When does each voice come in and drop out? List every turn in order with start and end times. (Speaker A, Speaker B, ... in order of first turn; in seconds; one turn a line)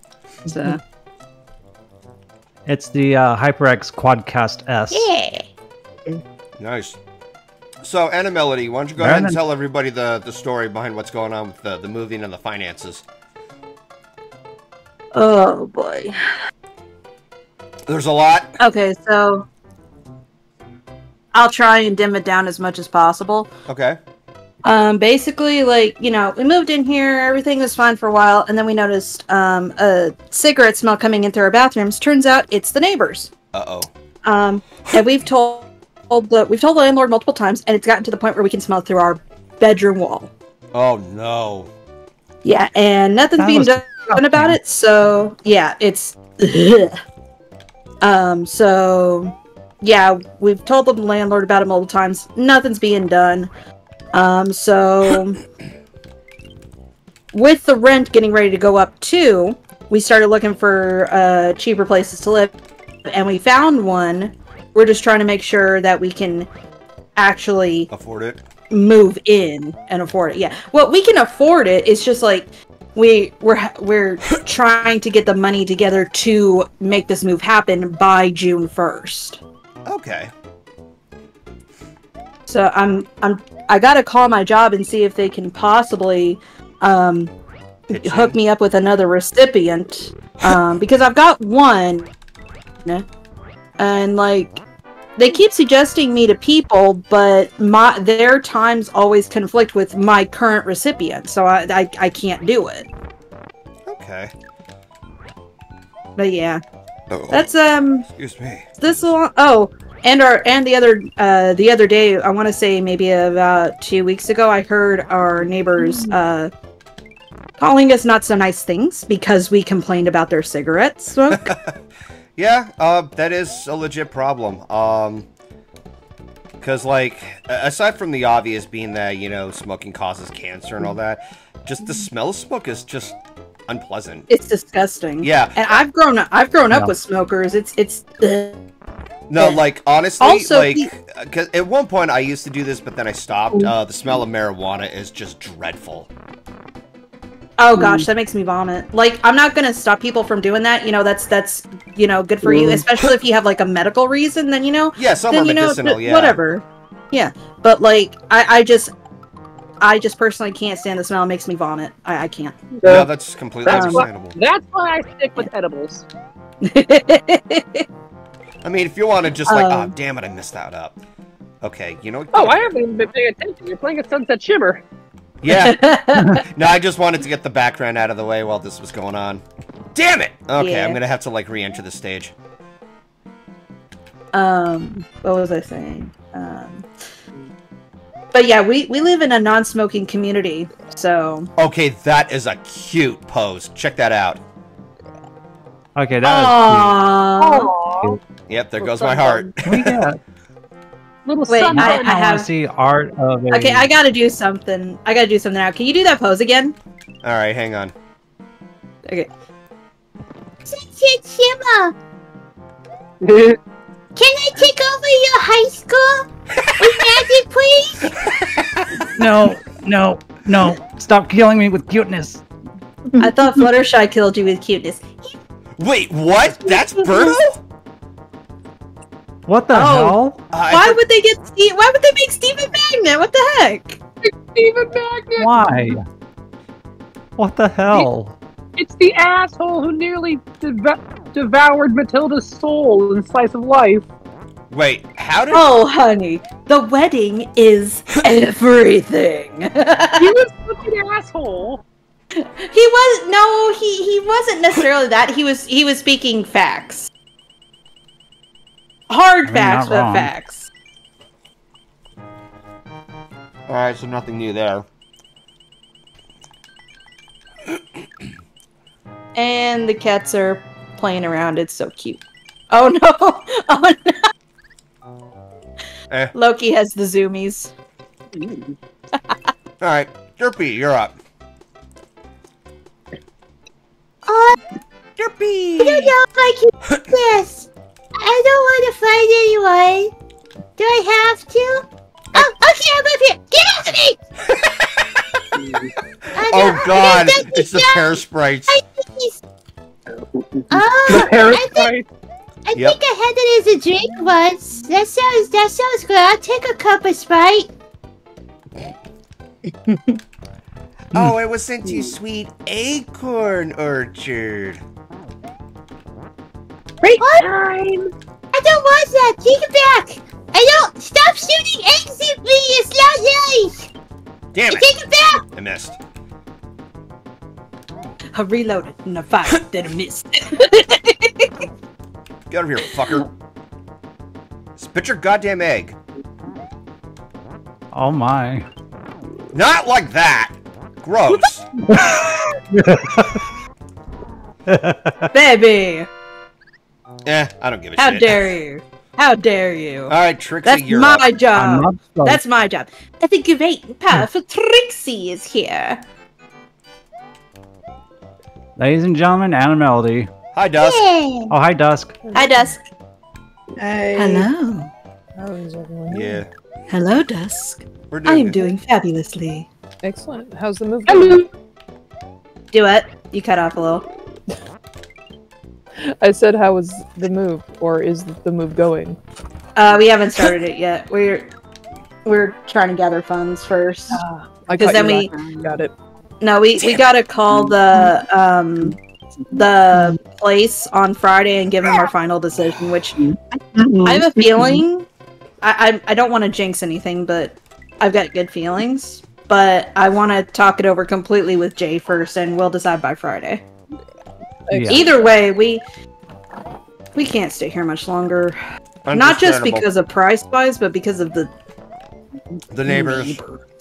Speaker A: 0.5-0.8
Speaker B: 2.7-5.1
Speaker C: 4.9-5.5
Speaker D: 6.6-7.0
Speaker D: 7.8-13.0
Speaker B: 9.0-9.4
Speaker A: 15.1-16.1
Speaker D: 17.9-18.5
Speaker A: 18.6-19.5
Speaker A: 21.3-23.5
Speaker D: 23.7-24.0
Speaker A: 24.6-33.3
Speaker D: 33.5-33.9
Speaker A: 34.2-40.3
Speaker D: 40.7-41.7
Speaker A: 42.4-47.0
Speaker B: 43.4-44.6
Speaker A: 48.0-53.5
Speaker A: 54.1-55.4
Speaker A: 57.3-62.5
Speaker A: 63.1-66.5
Speaker A: 67.2-67.9
Speaker D: 67.9-68.4
Speaker A: 68.7-79.4
Speaker D: 79.9-80.3
Speaker A: 82.5-87.3
Speaker D: 87.9-88.4
Speaker A: 87.9-92.1
Speaker A: 93.8-94.6
Speaker A: 95.2-102.9
Speaker D: 103.9-104.3
Speaker A: 106.2-106.6
Speaker D: 107.1-107.5
Speaker A: 107.3-108.1
Speaker D: 108.1-108.9
Speaker A: 108.8-116.5
Speaker A: 117.6-121.5
Speaker D: 121.4-121.7
Speaker D: 122.4-125.3
Speaker D: 126.6-133.2
Speaker D: 133.7-134.3
Speaker A: 134.3-138.6
Speaker D: 135.2-135.6
Speaker D: 139.3-146.1
Speaker A: 140.2-140.9
Speaker A: 147.6-158.9
Speaker D: 155.0-156.4
Speaker A: 159.8-162.6
Speaker E: 162.8-163.1
Speaker D: 162.8-164.4
Speaker E: 163.7-166.1
Speaker A: 163.7-164.1
Speaker A: 166.7-167.8
Speaker D: 168.6-171.0
Speaker A: 169.5-169.9
Speaker D: 171.6-172.6
Speaker E: 172.3-174.8
Speaker D: 175.4-175.8
Speaker A: 175.5-176.4
Speaker D: 176.5-179.4
Speaker D: 179.9-182.3
Speaker A: 180.6-181.0
Speaker A: 184.3-186.9
Speaker A: 188.3-191.5
Speaker D: 191.6-194.4
Speaker B: 195.9-197.0
Speaker A: 196.2-197.7
Speaker E: 197.4-198.2
Speaker D: 198.5-200.0
Speaker E: 198.8-199.5
Speaker B: 199.7-200.2
Speaker E: 201.3-202.2
Speaker A: 201.5-202.5
Speaker B: 201.6-203.9
Speaker A: 203.5-206.8
Speaker D: 207.2-207.9
Speaker C: 210.7-211.9
Speaker E: 213.2-213.6
Speaker C: 214.2-216.3
Speaker D: 216.6-217.3
Speaker C: 216.8-218.1
Speaker D: 218.4-218.9
Speaker B: 219.2-222.4
Speaker A: 223.2-225.2
Speaker D: 225.8-227.6
Speaker A: 227.0-227.4
Speaker B: 229.5-230.4
Speaker A: 229.7-230.2
Speaker D: 230.5-231.0
Speaker A: 230.7-234.0
Speaker E: 234.4-235.9
Speaker B: 235.4-236.0
Speaker B: 237.4-238.4
Speaker E: 238.8-244.0
Speaker D: 244.7-245.7
Speaker A: 245.5-250.3
Speaker E: 250.2-251.8
Speaker A: 252.4-257.1
Speaker A: 259.1-260.7
Speaker B: 259.4-260.3
Speaker D: 263.7-264.9
Speaker A: 269.4-274.2
Speaker A: 276.3-277.7
Speaker D: 279.8-281.2
Speaker C: 284.3-284.6
Speaker D: 285.2-286.1
Speaker C: 285.8-290.1
Speaker D: 286.9-287.1
Speaker C: 290.8-294.2
Speaker D: 294.5-295.3
Speaker C: 296.4-299.4
Speaker D: 296.5-298.8
Speaker C: 300.7-301.9
Speaker E: 301.1-302.1
Speaker C: 302.6-307.7
Speaker D: 311.1-314.8
Speaker C: 317.2-317.5
Speaker E: 317.4-318.1
Speaker C: 318.5-323.9
Speaker D: 324.5-324.9
Speaker C: 324.7-325.4
Speaker D: 325.5-326.0
Speaker A: 328.4-331.5
Speaker D: 332.5-333.3
Speaker D: 334.8-336.0
Speaker B: 337.9-338.6
Speaker D: 339.5-341.7
Speaker B: 341.9-343.4
Speaker B: 344.7-345.2
Speaker A: 345.3-346.1
Speaker D: 347.3-348.5
Speaker A: 348.0-356.0
Speaker D: 350.1-351.3
Speaker B: 351.5-352.4
Speaker B: 358.8-360.3
Speaker D: 360.5-361.1
Speaker C: 360.8-361.5
Speaker B: 361.5-362.1
Speaker F: 362.2-362.7
Speaker A: 362.4-362.8
Speaker F: 363.8-364.3
Speaker A: 364.1-364.9
Speaker F: 365.4-366.4
Speaker D: 366.1-366.5
Speaker A: 366.9-369.7
Speaker D: 368.1-368.6
Speaker F: 370.0-371.4
Speaker E: 371.1-371.5
Speaker A: 372.7-374.1
Speaker F: 376.1-379.2
Speaker A: 379.8-381.5
Speaker A: 382.2-384.2
Speaker F: 384.1-385.9
Speaker A: 384.8-385.3
Speaker A: 386.4-389.0
Speaker A: 389.5-393.2
Speaker A: 394.0-395.1
Speaker A: 395.6-403.6
Speaker F: 404.7-405.3
Speaker B: 404.7-405.1
Speaker A: 404.9-405.8
Speaker A: 407.1-408.6
Speaker D: 409.1-409.9
Speaker A: 409.1-411.5
Speaker D: 412.7-413.4